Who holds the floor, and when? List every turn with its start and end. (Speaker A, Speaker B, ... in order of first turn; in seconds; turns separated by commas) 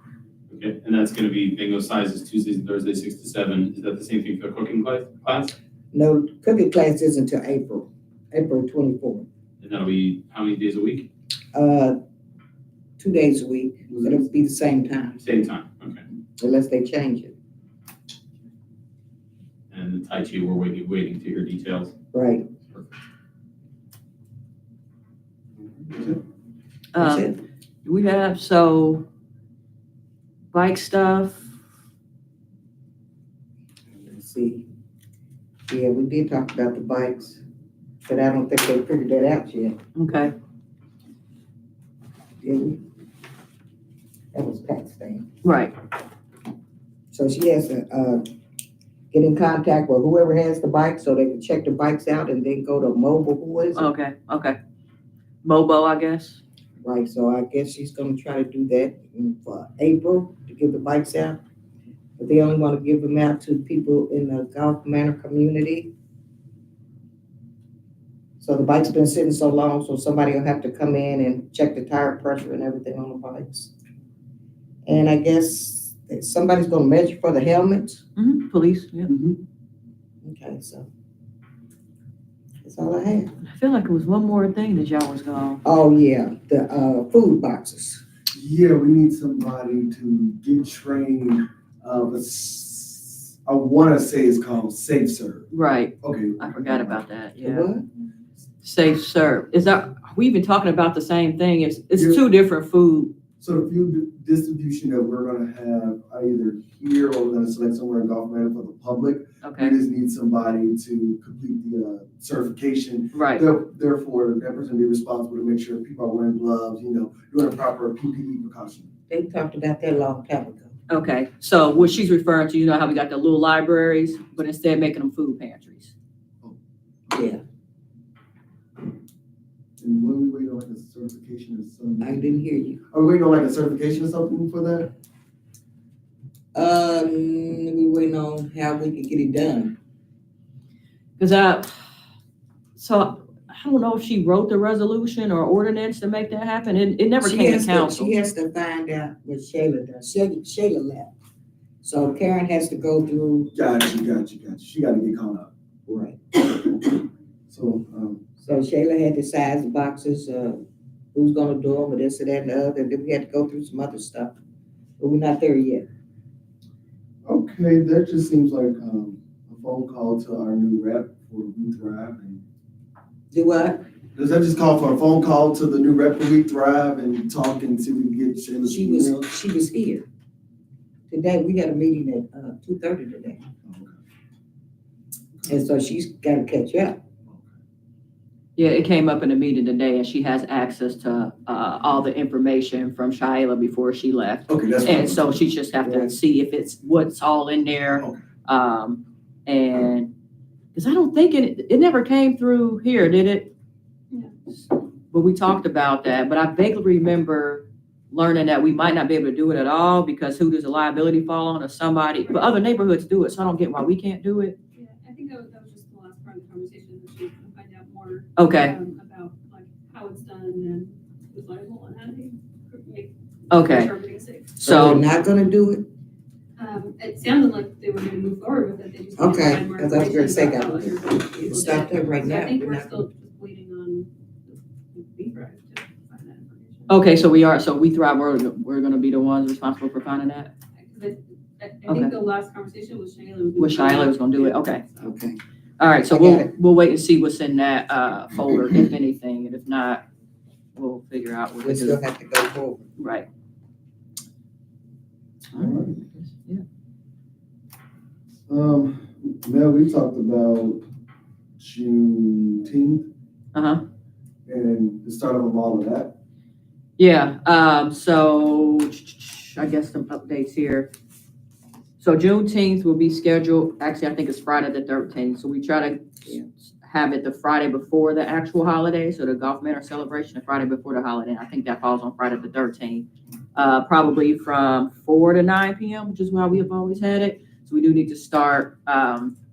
Speaker A: 0.5-5.5, Speaker B: 5.9-9.2, Speaker A: 9.6-11.1, Speaker B: 11.5-12.0, Speaker B: 13.0-15.2, Speaker C: 13.9-14.2, Speaker A: 15.2-16.0, Speaker B: 16.4-17.3, Speaker A: 19.7-21.9, Speaker B: 22.1-22.5, Speaker C: 25.9-26.2, Speaker D: 26.9-29.0, Speaker B: 27.0-27.4, Speaker D: 30.5-31.5, Speaker B: 33.9-34.7, Speaker B: 35.7-37.4, Speaker B: 38.0-39.8, Speaker D: 40.0-40.3, Speaker B: 42.4-42.8, Speaker B: 44.3-45.3, Speaker D: 45.4-45.7, Speaker B: 47.1-48.2, Speaker B: 49.1-53.9, Speaker D: 53.8-54.5, Speaker D: 55.4-56.4, Speaker B: 56.8-61.4, Speaker B: 62.2-65.9, Speaker B: 68.4-73.7, Speaker B: 74.8-78.0, Speaker D: 78.2-79.1, Speaker C: 79.1-79.4, Speaker B: 80.2-80.9, Speaker B: 82.6-83.3, Speaker D: 83.4-85.6, Speaker B: 85.6-88.0, Speaker C: 88.3-95.5, Speaker D: 95.5-97.7, Speaker C: 96.0-97.0, Speaker B: 97.4-97.8, Speaker D: 98.6-103.1, Speaker C: 102.0-102.2, Speaker C: 103.4-118.9, Speaker D: 109.4-109.7, Speaker D: 113.1-113.5, Speaker B: 119.1-120.8, Speaker D: 120.9-125.9, Speaker B: 127.1-127.4, Speaker C: 129.8-132.3, Speaker B: 132.0-132.8, Speaker C: 132.9-134.9, Speaker B: 136.5-139.8, Speaker D: 141.2-141.7, Speaker D: 142.8-148.1, Speaker B: 147.2-151.1, Speaker B: 151.8-153.5, Speaker C: 153.5-155.5, Speaker B: 155.9-156.7, Speaker C: 157.5-158.2, Speaker B: 158.4-160.6, Speaker B: 161.1-164.4, Speaker B: 165.0-165.9, Speaker C: 167.2-172.4, Speaker B: 173.3-173.8, Speaker C: 174.1-179.3, Speaker B: 178.6-180.1, Speaker B: 181.1-183.4, Speaker C: 183.6-184.0, Speaker B: 185.5-187.0, Speaker C: 187.3-187.5, Speaker D: 188.6-200.1, Speaker C: 194.5-195.4, Speaker B: 195.8-196.2, Speaker C: 197.9-198.2, Speaker D: 200.7-203.5, Speaker D: 204.5-214.6, Speaker E: 212.2-212.6, Speaker E: 214.7-224.6, Speaker D: 218.4-218.8, Speaker D: 223.5-223.9, Speaker D: 224.6-225.0, Speaker B: 224.6-225.9, Speaker E: 226.6-237.0, Speaker B: 229.2-233.0, Speaker D: 236.9-240.5, Speaker E: 240.8-245.1, Speaker D: 241.9-242.1, Speaker D: 243.6-244.8, Speaker B: 245.0-245.4, Speaker D: 245.8-250.0, Speaker B: 246.1-246.5, Speaker D: 250.8-252.0, Speaker B: 251.6-252.9, Speaker D: 253.0-253.3, Speaker D: 255.5-255.8, Speaker C: 255.5-256.0, Speaker C: 258.5-260.8, Speaker C: 261.6-263.1, Speaker D: 263.5-263.8, Speaker C: 264.5-266.2, Speaker D: 267.0-270.9, Speaker D: 272.0-289.3